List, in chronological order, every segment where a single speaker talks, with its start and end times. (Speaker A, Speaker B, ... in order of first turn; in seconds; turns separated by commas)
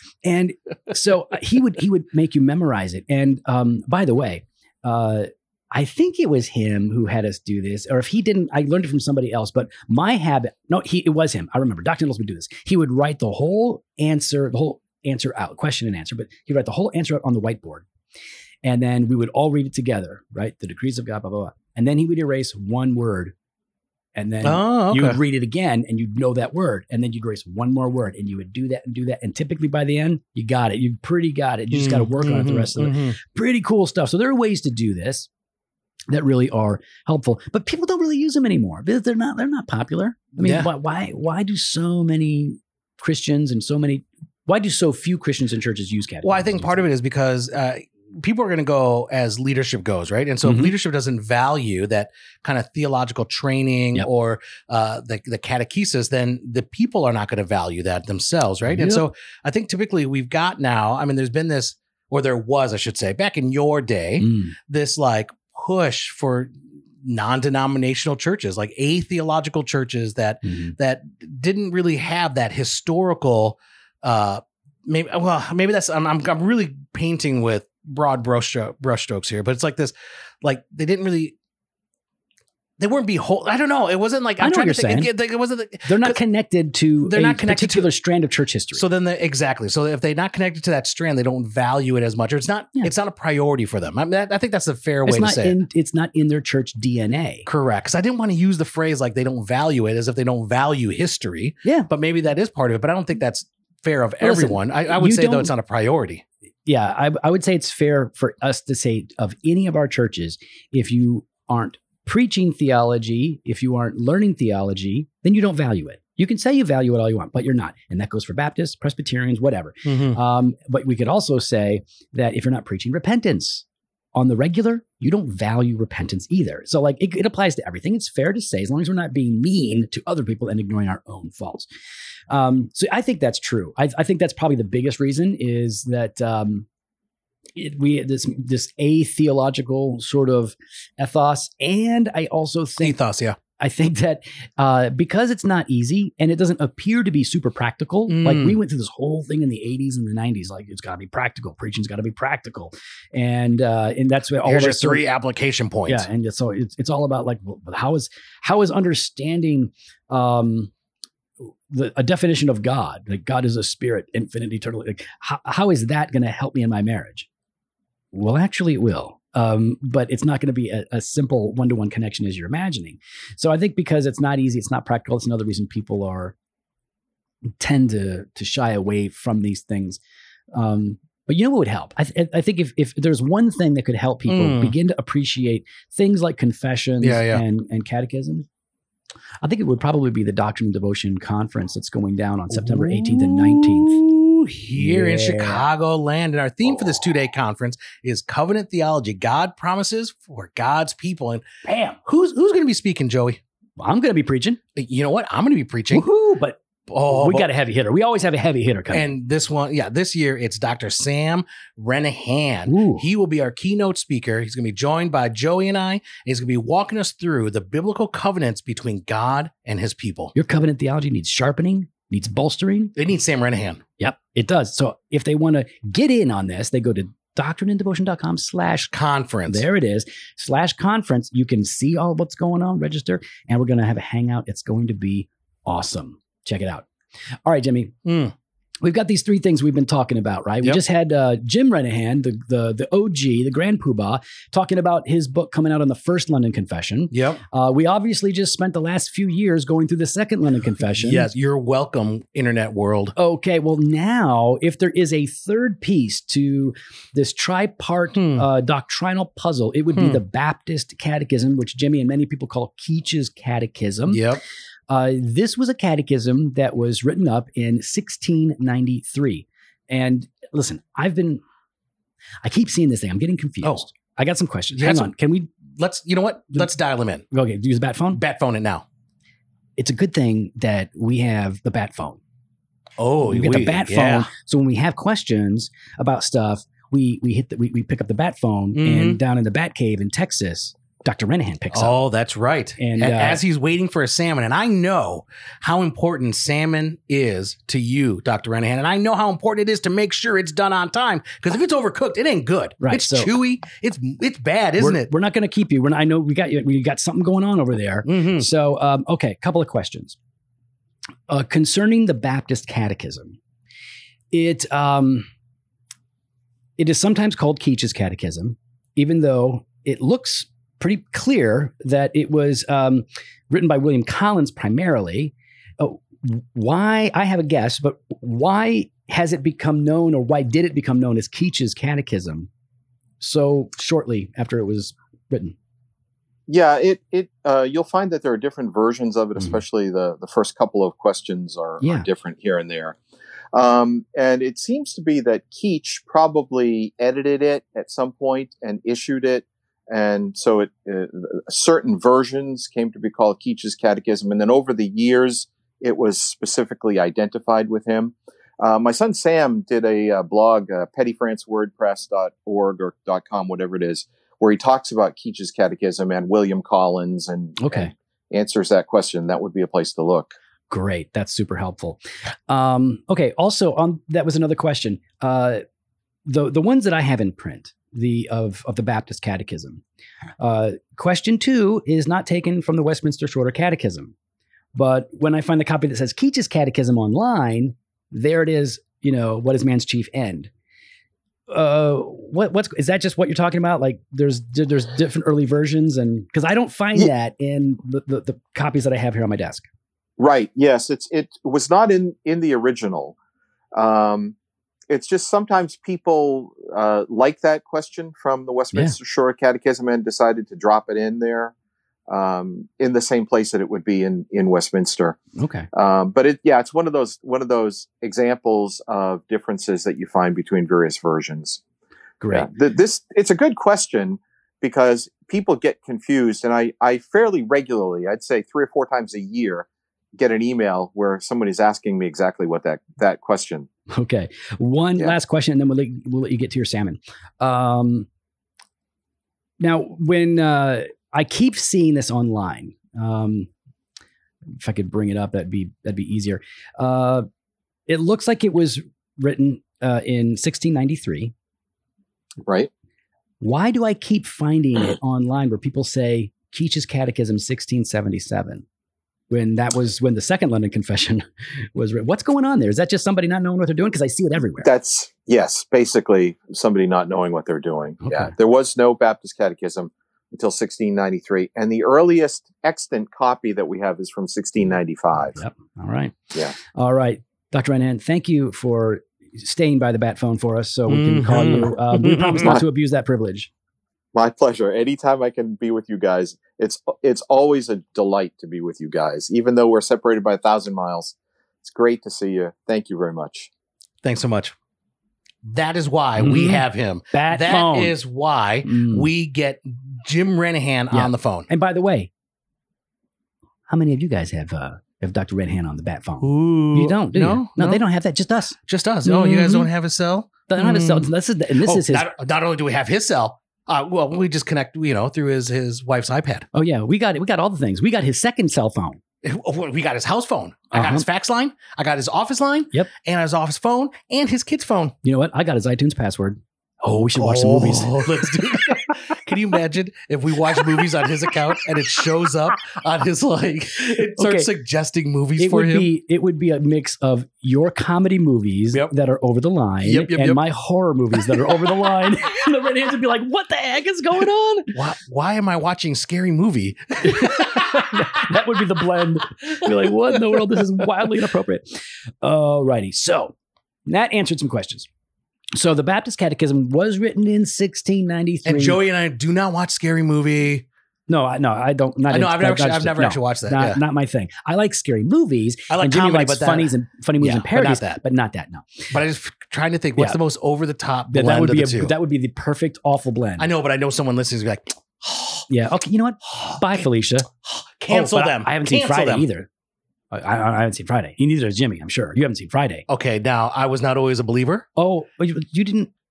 Speaker A: 0.2-17.9, Speaker A: 18.6-23.3, Speaker A: 24.1-35.3, Speaker B: 24.4-25.2, Speaker B: 31.7-33.2, Speaker A: 36.1-46.9, Speaker B: 40.4-40.7, Speaker B: 46.2-66.5, Speaker A: 50.4-50.7, Speaker A: 58.7-59.0, Speaker A: 64.2-64.5, Speaker B: 67.0-81.4, Speaker A: 70.5-70.7, Speaker B: 82.8-86.2, Speaker A: 84.4-85.1, Speaker A: 85.8-88.8, Speaker B: 87.0-87.9, Speaker B: 88.8-95.6, Speaker A: 95.0-97.5, Speaker B: 97.5-106.2, Speaker A: 101.6-101.9, Speaker A: 104.2-105.5, Speaker A: 106.7-131.7, Speaker B: 119.9-120.2, Speaker A: 132.3-136.7, Speaker A: 137.6-143.0, Speaker B: 142.8-143.4, Speaker A: 143.6-155.1, Speaker B: 148.1-148.6, Speaker B: 154.4-156.1, Speaker A: 155.9-160.7, Speaker A: 161.4-167.3, Speaker A: 168.1-176.3, Speaker A: 177.6-180.0, Speaker A: 180.5-188.5, Speaker B: 184.3-184.8, Speaker B: 187.0-187.4, Speaker A: 189.4-194.1, Speaker B: 192.5-201.4, Speaker A: 194.8-195.6, Speaker A: 201.6-202.0, Speaker B: 202.1-203.4, Speaker A: 203.8-204.6, Speaker B: 204.8-206.1, Speaker A: 205.9-209.1, Speaker B: 206.9-207.5, Speaker B: 208.9-220.3, Speaker A: 212.7-213.0, Speaker A: 220.3-222.9, Speaker B: 223.0-223.8, Speaker A: 224.0-228.9, Speaker B: 228.9-229.7, Speaker A: 229.5-236.9, Speaker A: 237.5-238.0, Speaker B: 238.1-238.3, Speaker A: 238.8-251.3, Speaker B: 247.1-247.4, Speaker B: 251.0-253.2, Speaker A: 253.2-264.2, Speaker B: 258.1-258.4, Speaker B: 259.9-260.2, Speaker B: 264.1-264.4, Speaker A: 264.9-271.4, Speaker A: 272.4-275.5, Speaker B: 274.7-275.1, Speaker B: 275.8-277.2, Speaker A: 277.3-278.2, Speaker B: 278.1-278.9, Speaker A: 279.8-282.2, Speaker B: 283.0-284.3, Speaker A: 283.2-292.0, Speaker B: 288.8-289.2, Speaker B: 291.7-305.1, Speaker A: 292.8-293.4, Speaker A: 302.8-303.4, Speaker A: 304.8-310.2, Speaker B: 308.1-308.5, Speaker A: 311.3-313.4, Speaker A: 314.3-315.3, Speaker A: 316.8-332.5, Speaker A: 333.2-335.6, Speaker C: 336.5-343.0, Speaker A: 341.8-342.1, Speaker C: 343.5-370.4, Speaker A: 367.6-367.9, Speaker A: 370.7-375.6, Speaker A: 376.3-379.8, Speaker A: 380.4-384.1, Speaker A: 384.8-390.5, Speaker A: 391.5-399.7, Speaker C: 400.2-403.2, Speaker C: 403.7-404.4, Speaker C: 404.9-411.5, Speaker C: 412.1-415.2, Speaker A: 415.4-415.7, Speaker C: 415.7-421.6, Speaker A: 422.2-422.5, Speaker C: 422.3-433.7, Speaker A: 433.9-438.1, Speaker A: 439.6-443.5, Speaker A: 444.6-447.3, Speaker A: 447.9-451.3, Speaker C: 452.4-452.7, Speaker A: 453.4-458.6, Speaker A: 459.3-461.2, Speaker A: 461.8-464.7, Speaker C: 464.6-475.4, Speaker A: 468.0-468.3, Speaker A: 475.4-483.5, Speaker B: 480.9-482.6, Speaker C: 484.1-493.5, Speaker B: 494.0-494.5, Speaker B: 495.4-501.5, Speaker A: 496.2-498.0, Speaker A: 498.6-499.1, Speaker A: 500.9-502.1, Speaker A: 503.7-509.7, Speaker B: 506.2-507.8, Speaker B: 508.7-516.5, Speaker A: 510.5-512.1, Speaker A: 516.5-519.0, Speaker B: 519.2-524.9, Speaker A: 520.7-521.0, Speaker A: 525.0-528.6, Speaker B: 527.1-535.9, Speaker A: 534.1-534.5, Speaker A: 535.4-544.8, Speaker B: 539.8-540.4, Speaker B: 541.1-541.9, Speaker B: 544.7-548.4, Speaker A: 547.0-553.4, Speaker B: 549.5-551.1, Speaker A: 553.9-554.9, Speaker A: 555.5-558.8, Speaker B: 558.5-560.7, Speaker A: 561.1-568.9, Speaker B: 562.1-563.8, Speaker B: 565.7-568.0, Speaker B: 568.9-571.9, Speaker A: 571.1-573.5, Speaker B: 573.4-575.5, Speaker A: 575.5-577.3, Speaker B: 576.2-576.8, Speaker B: 577.4-579.3, Speaker A: 577.9-579.5, Speaker A: 580.1-582.9, Speaker B: 582.9-584.7, Speaker A: 584.8-585.9